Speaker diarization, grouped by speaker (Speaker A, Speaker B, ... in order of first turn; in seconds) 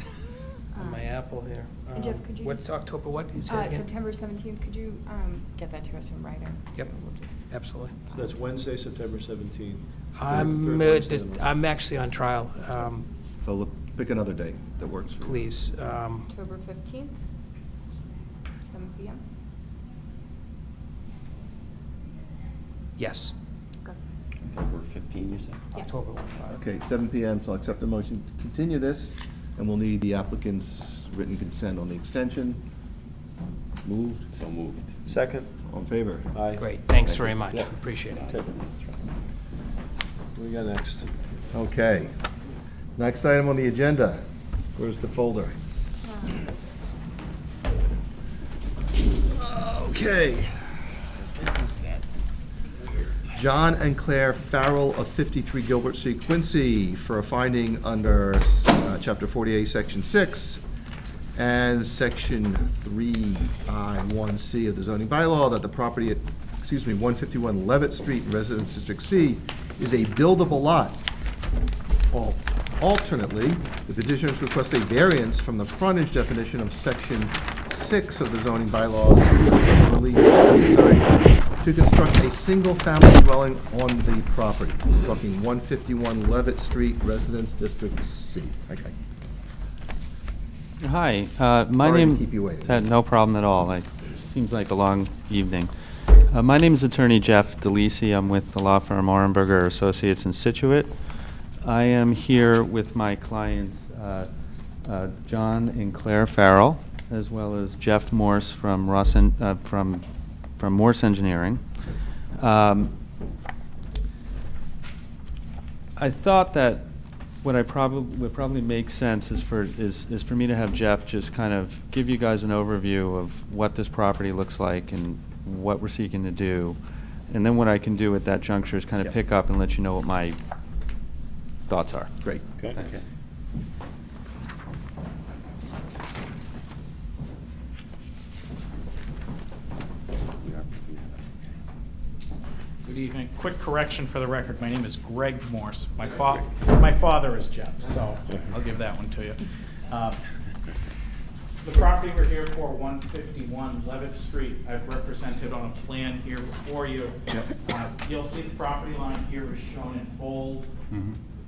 Speaker A: 0.7-1.1, 1.9-2.9, 3.5-7.5, 16.3-17.2, 18.7-19.2, 46.0-46.5
Speaker B: 0.8-3.9, 7.5-8.0, 10.1-13.1, 15.2-16.3, 23.0-23.3, 25.8-26.6, 36.6-38.4
Speaker C: 8.1-11.5, 35.1-35.5, 36.3-36.7, 37.5-38.5, 40.4-41.1, 132.6-132.8
Speaker D: 13.4-15.5, 26.5-32.6, 33.8-34.3, 35.6-37.4, 41.5-42.1, 43.0-44.2, 44.8-45.6, 49.2-50.9, 53.3-60.6, 61.4-71.0, 72.1-88.9, 91.8-93.0, 132.2-132.5
Speaker E: 24.4-25.7, 34.3-35.0, 38.1-39.0, 51.2-52.0, 140.3-141.6
Speaker F: 90.8-100.9, 101.6-104.3, 104.8-110.0, 110.6-111.6, 112.4-112.9, 116.0-116.9, 117.4-126.8, 127.3-130.4, 131.7-132.1, 160.9-161.2
Speaker G: 142.8-150.2, 151.6-160.7